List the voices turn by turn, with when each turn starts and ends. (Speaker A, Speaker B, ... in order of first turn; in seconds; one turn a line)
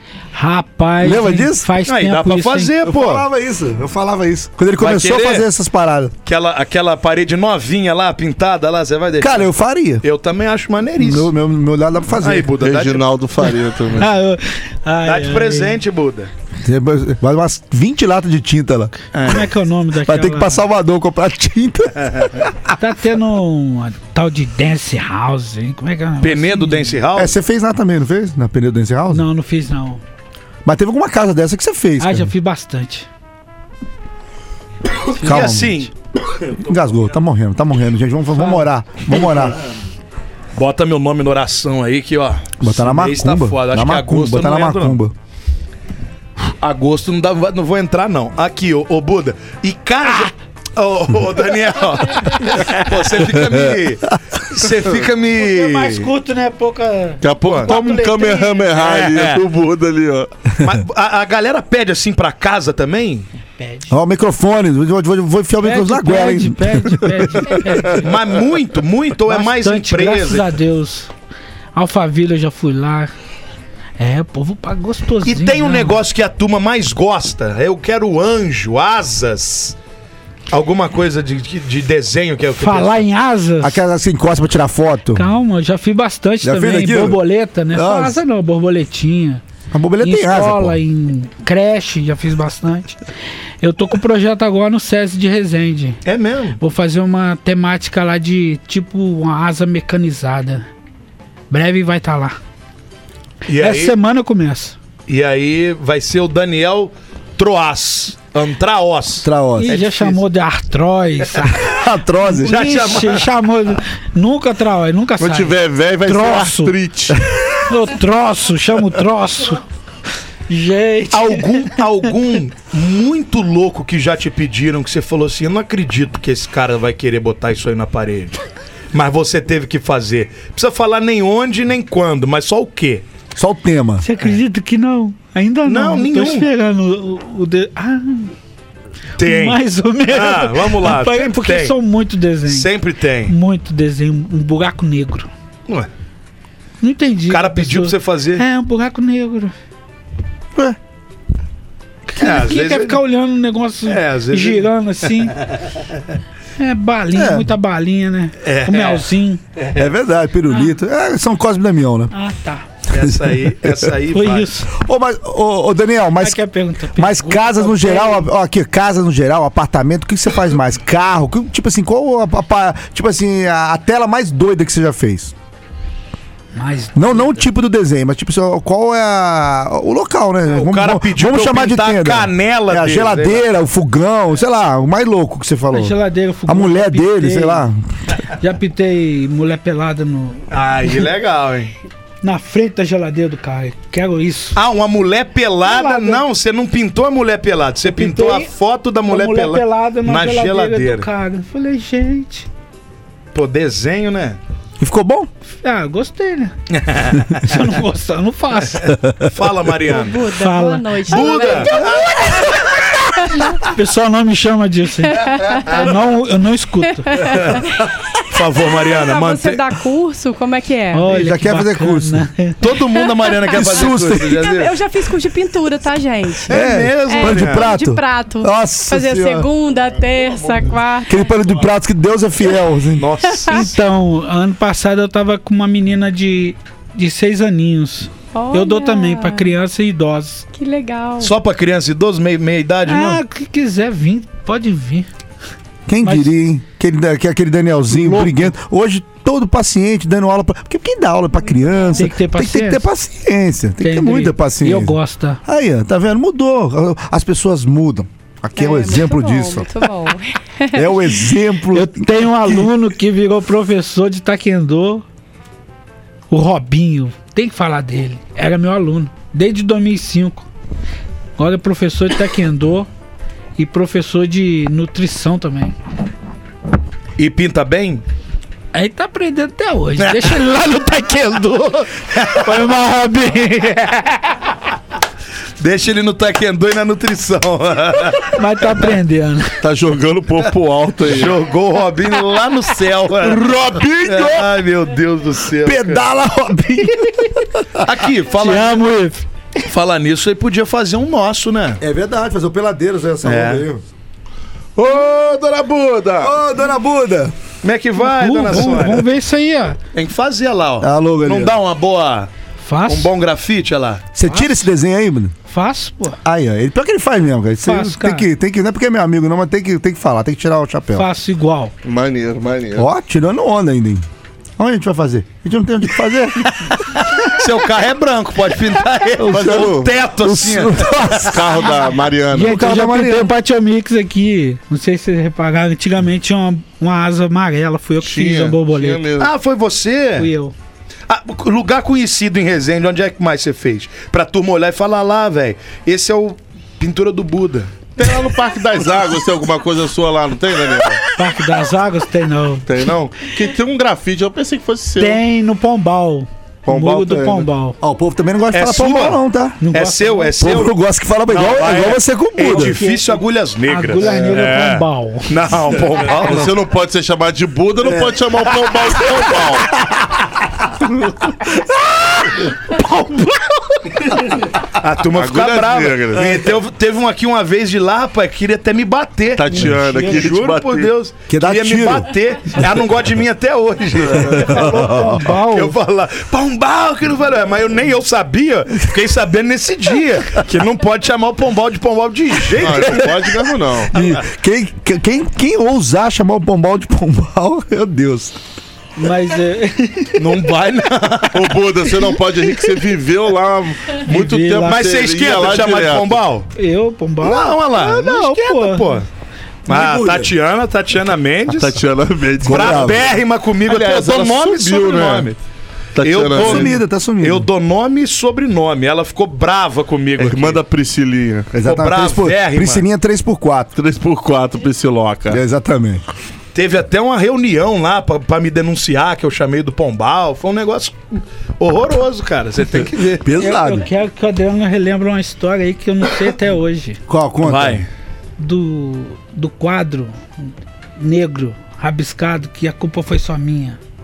Speaker A: 0.3-2.7
Speaker B: 1.0-1.7
Speaker C: 1.9-3.2
Speaker B: 2.8-6.1
Speaker C: 4.8-5.5
Speaker C: 6.2-9.5
Speaker B: 9.2-10.0
Speaker C: 10.0-11.3
Speaker B: 11.0-12.5
Speaker C: 12.2-13.1
Speaker D: 12.6-14.1
Speaker A: 13.4-15.8
Speaker C: 15.0-16.3
Speaker B: 16.6-18.9
Speaker C: 19.1-19.5
Speaker A: 19.2-20.6
Speaker B: 20.0-22.7
Speaker A: 22.8-27.0
Speaker C: 26.2-27.4
Speaker B: 27.1-29.2
Speaker A: 29.1-30.0
Speaker B: 30.6-32.3
Speaker A: 32.0-33.1
Speaker A: 35.2-35.6
Speaker B: 35.2-35.9
Speaker C: 35.2-35.9
Speaker B: 36.6-39.6
Speaker A: 38.3-38.6
Speaker C: 40.5-45.0
Speaker B: 42.6-45.1
Speaker C: 46.4-56.1
Speaker A: 52.1-52.7
Speaker A: 55.4-58.7
Speaker D: 57.2-60.3
Speaker C: 57.5-57.8
Speaker C: 58.8-59.4
Speaker C: 60.6-63.3
Speaker A: 63.5-63.9
Speaker B: 63.9-67.6
Speaker A: 65.6-68.1
Speaker C: 68.0-70.5
Speaker A: 69.3-71.1
Speaker A: 71.7-73.1
Speaker A: 74.0-76.0
Speaker C: 75.2-79.8
Speaker C: 80.5-83.0
Speaker A: 82.5-83.8
Speaker B: 83.6-85.2
Speaker A: 85.1-89.4
Speaker B: 86.4-88.2
Speaker B: 89.7-90.8
Speaker A: 90.0-93.0
Speaker A: 93.6-96.0
Speaker C: 96.0-96.6
Speaker A: 96.6-100.7
Speaker A: 101.5-102.4
Speaker C: 103.5-104.0
Speaker A: 103.5-104.8
Speaker C: 105.1-110.2
Speaker B: 109.2-109.7
Speaker A: 109.6-111.7
Speaker B: 111.5-112.8
Speaker A: 112.3-116.7
Speaker C: 112.4-113.3
Speaker D: 115.2-117.2
Speaker A: 117.6-119.6
Speaker A: 120.5-121.8
Speaker C: 121.1-128.4
Speaker C: 128.9-133.0
Speaker B: 133.4-134.0
Speaker A: 134.0-138.3
Speaker C: 135.6-136.5
Speaker C: 139.2-141.7
Speaker A: 139.2-142.7
Speaker C: 142.5-143.3
Speaker A: 143.2-145.3
Speaker A: 146.8-149.5
Speaker C: 147.3-148.4
Speaker A: 152.1-155.4
Speaker C: 152.2-153.0
Speaker C: 153.9-155.6
Speaker A: 156.6-159.4
Speaker B: 157.1-157.5
Speaker C: 158.4-159.1
Speaker C: 159.6-159.9
Speaker B: 159.8-162.1
Speaker A: 162.1-162.7
Speaker C: 162.9-164.5
Speaker B: 162.9-163.8
Speaker A: 164.1-164.7
Speaker B: 164.7-166.4
Speaker A: 166.2-168.3
Speaker B: 166.9-175.3
Speaker A: 176.5-177.5
Speaker B: 176.9-185.9
Speaker C: 180.5-183.4
Speaker A: 185.7-187.6
Speaker B: 186.5-187.8
Speaker A: 188.4-190.4
Speaker C: 190.5-191.7
Speaker A: 192.2-194.6
Speaker C: 194.5-201.1
Speaker A: 195.6-196.2
Speaker A: 197.9-198.5
Speaker A: 199.1-202.5
Speaker C: 203.3-204.4
Speaker B: 204.8-205.3
Speaker A: 205.6-206.5
Speaker C: 206.7-207.5
Speaker A: 207.3-208.9
Speaker B: 208.9-209.2
Speaker C: 209.2-210.2
Speaker E: 209.9-212.5
Speaker A: 210.3-211.7
Speaker C: 211.1-212.4
Speaker E: 213.2-213.6
Speaker A: 213.6-217.2
Speaker E: 215.1-215.9
Speaker E: 217.0-221.1
Speaker C: 218.3-219.6
Speaker A: 220.9-222.6
Speaker B: 221.1-222.2
Speaker C: 222.6-224.7
Speaker E: 222.9-231.5
Speaker B: 223.5-224.4
Speaker B: 226.4-229.5
Speaker C: 226.5-227.7
Speaker B: 231.1-233.1
Speaker C: 233.0-233.7
Speaker E: 233.2-233.7
Speaker A: 233.5-240.4
Speaker E: 238.3-239.5
Speaker E: 240.5-241.3
Speaker C: 241.2-243.2
Speaker A: 242.9-245.1
Speaker B: 245.9-259.9
Speaker A: 246.0-246.3
Speaker A: 248.0-248.5
Speaker E: 251.5-252.0
Speaker A: 252.0-252.9
Speaker A: 253.8-255.4
Speaker E: 258.6-261.3
Speaker B: 260.7-262.7
Speaker A: 261.7-265.0
Speaker A: 266.3-270.5
Speaker A: 271.4-272.9
Speaker A: 273.6-275.7
Speaker C: 277.2-278.0
Speaker A: 278.7-284.5
Speaker C: 280.0-280.4
Speaker C: 282.1-282.6
Speaker C: 285.6-288.4
Speaker A: 288.3-289.6
Speaker D: 289.6-291.4
Speaker C: 291.0-293.5
Speaker D: 293.2-294.5
Speaker C: 294.0-296.0
Speaker B: 295.6-297.9
Speaker C: 297.8-298.9
Speaker A: 298.4-299.2
Speaker C: 299.6-301.8
Speaker B: 301.8-303.8
Speaker C: 303.2-303.6
Speaker D: 304.8-306.4
Speaker B: 306.2-307.3
Speaker C: 307.6-309.1
Speaker A: 308.0-309.8
Speaker C: 309.9-312.3
Speaker B: 310.8-311.6
Speaker A: 312.6-313.1
Speaker C: 312.9-314.1
Speaker B: 314.1-315.4
Speaker A: 315.5-316.2
Speaker B: 316.2-321.1
Speaker A: 317.6-318.3
Speaker A: 320.9-321.7
Speaker D: 321.8-322.9
Speaker B: 322.8-324.0
Speaker B: 324.6-326.5
Speaker C: 326.6-331.4
Speaker B: 329.2-331.5
Speaker D: 329.3-329.9
Speaker D: 331.1-332.7
Speaker A: 332.3-339.0
Speaker B: 332.3-333.3
Speaker D: 338.0-339.3
Speaker C: 339.2-340.3
Speaker A: 340.2-340.5
Speaker C: 341.1-347.9
Speaker D: 347.9-351.0
Speaker A: 351.1-352.7
Speaker D: 352.7-355.2
Speaker A: 355.0-357.8
Speaker D: 356.6-357.5
Speaker B: 357.8-359.6
Speaker C: 358.5-360.7
Speaker A: 359.6-360.4
Speaker B: 360.4-362.8
Speaker C: 361.3-366.5
Speaker A: 362.4-363.1
Speaker A: 363.7-365.3
Speaker D: 366.1-369.7
Speaker B: 367.8-368.2
Speaker A: 372.8-373.2
Speaker C: 374.7-393.4
Speaker D: 375.1-376.5
Speaker D: 379.4-380.9
Speaker A: 379.5-380.3
Speaker B: 381.3-382.1
Speaker D: 384.2-384.4
Speaker A: 384.4-385.8
Speaker D: 392.5-393.9
Speaker B: 393.9-398.4
Speaker A: 399.0-400.4
Speaker C: 400.2-401.6
Speaker D: 401.3-406.2
Speaker A: 404.0-404.8
Speaker C: 404.6-406.5
Speaker A: 406.6-409.0
Speaker C: 407.2-409.1
Speaker B: 409.7-410.3
Speaker C: 409.7-411.8
Speaker D: 411.5-415.3
Speaker B: 412.4-413.0
Speaker C: 412.4-415.4
Speaker D: 415.9-416.7
Speaker C: 416.0-420.6
Speaker B: 416.3-417.5
Speaker D: 420.2-421.5
Speaker B: 421.5-423.7
Speaker C: 421.6-422.9
Speaker D: 423.7-425.4
Speaker B: 425.3-426.0
Speaker C: 426.5-433.2
Speaker B: 433.2-433.9
Speaker A: 433.4-437.0
Speaker B: 437.1-437.8
Speaker C: 437.4-437.9
Speaker A: 438.4-443.8